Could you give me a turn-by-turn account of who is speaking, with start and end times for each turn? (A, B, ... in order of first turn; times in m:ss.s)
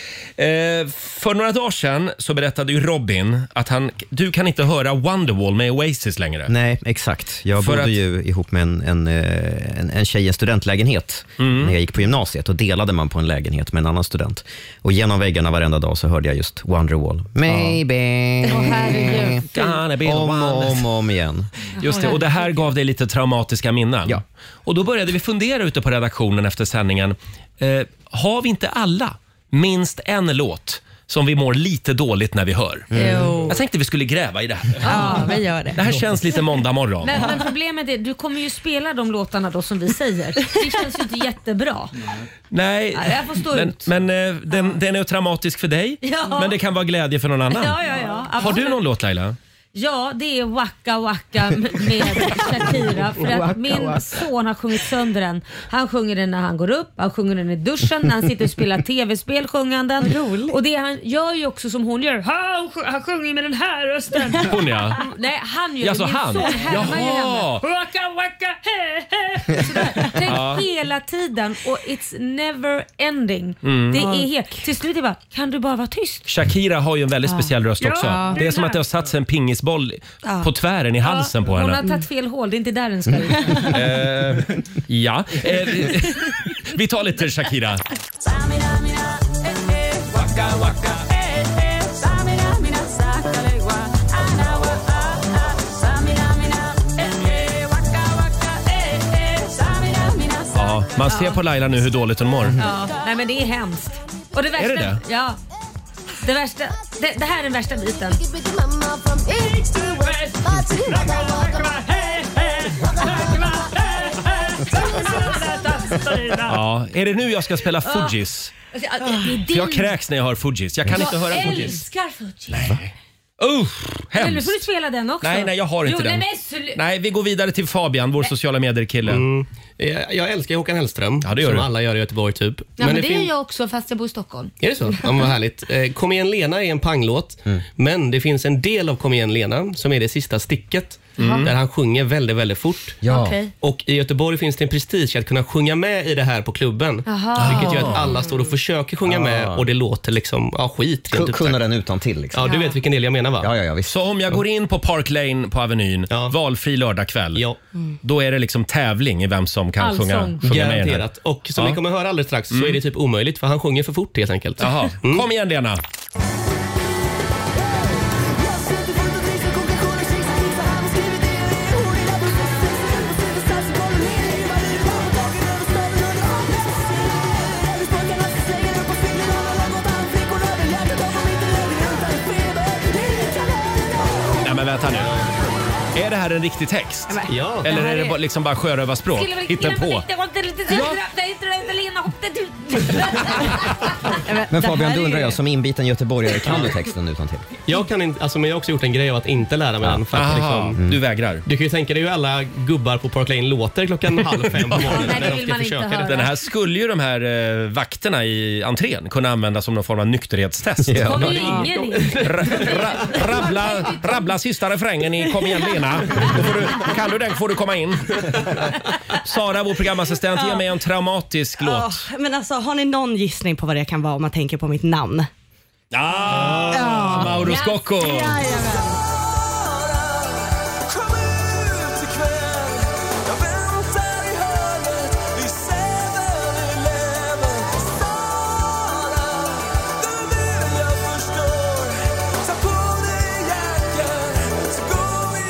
0:00.4-0:06.5 A
0:06.5-0:21.5 B
0:07.6-0:08.0 A
0:11.4-0:11.7 A
0:18.4-0:19.5 C
0:19.5-0:20.9 A
0:21.8-0:32.9 A
0:21.8-0:22.2 C
0:32.9-0:33.4 B
0:32.9-0:33.6 D
0:33.5-0:35.2 A
0:34.8-0:36.0 D
0:34.8-0:35.4 C
0:35.7-0:37.4 A
0:37.0-0:41.9 C
0:37.1-0:37.5 D
0:42.5-0:47.8 A
0:43.0-0:43.8 C
0:46.0-0:46.6 C
0:47.5-0:48.8 C
0:48.4-0:49.4 A
0:49.7-1:16.2 C
0:53.4-0:54.0 D
1:00.0-1:00.6 D
1:04.4-1:05.0 A
1:05.8-1:07.6 A
1:10.2-1:10.6 A
1:13.6-1:14.0 A
1:13.9-1:14.3 D
1:16.2-1:21.8 A
1:17.2-1:18.4 D
1:17.8-1:18.8 C
1:20.2-1:20.5 D
1:21.0-1:23.7 C
1:23.6-1:27.8 A
1:40.5-1:42.6 A
1:41.0-1:41.4 C
1:42.6-1:45.4 C
1:44.6-1:45.0 A
1:46.2-1:48.2 C
1:50.1-1:56.6 C
1:56.5-1:58.5 A
1:57.8-1:58.1 C
1:58.7-1:59.9 C
1:59.5-2:01.8 A
2:00.9-2:02.7 C
2:02.6-2:02.9 A
2:03.4-2:04.6 A
2:04.1-2:06.8 C
2:05.2-2:09.2 A
2:09.0-2:13.3 E
2:11.2-2:11.7 A
2:12.8-2:14.5 C
2:14.6-2:23.0 E
2:21.2-2:21.5 A
2:21.2-2:21.4 C
2:23.0-2:23.4 B
2:23.1-2:23.5 C
2:23.6-2:31.6 E
2:27.1-2:28.0 C
2:27.4-2:27.8 A
2:27.5-2:28.4 D
2:29.0-2:29.6 B
2:31.1-2:32.5 B
2:32.3-2:33.5 E
2:32.4-2:32.8 D
2:33.4-2:33.9 B
2:33.8-2:37.4 A
2:38.0-2:41.8 A
2:39.8-2:40.4 C
2:40.4-2:45.2 E
2:42.5-2:42.8 A
2:44.6-2:45.8 A
3:04.4-3:05.2 A
3:05.9-3:10.0 A
3:07.1-3:08.1 D
3:07.3-3:07.7 E
3:07.7-3:08.1 C
3:09.1-3:13.9 C
3:14.2-3:15.4 D
3:14.5-3:17.5 B
3:16.5-3:16.7 E
3:17.7-3:20.8 E
3:20.1-3:21.4 A
3:21.4-3:26.2 E
3:24.9-3:26.3 C
3:26.0-3:38.4 A
3:30.8-3:31.4 B
3:31.0-3:34.3 C
3:31.4-3:31.7 D
3:39.2-3:42.1 A
3:40.3-3:40.6 D
3:41.6-3:45.3 D
3:45.9-3:48.5 A
3:46.2-3:49.0 D
3:47.4-3:47.8 C
3:54.9-3:57.6 A
4:00.6-4:01.9 A
4:02.9-4:04.5 A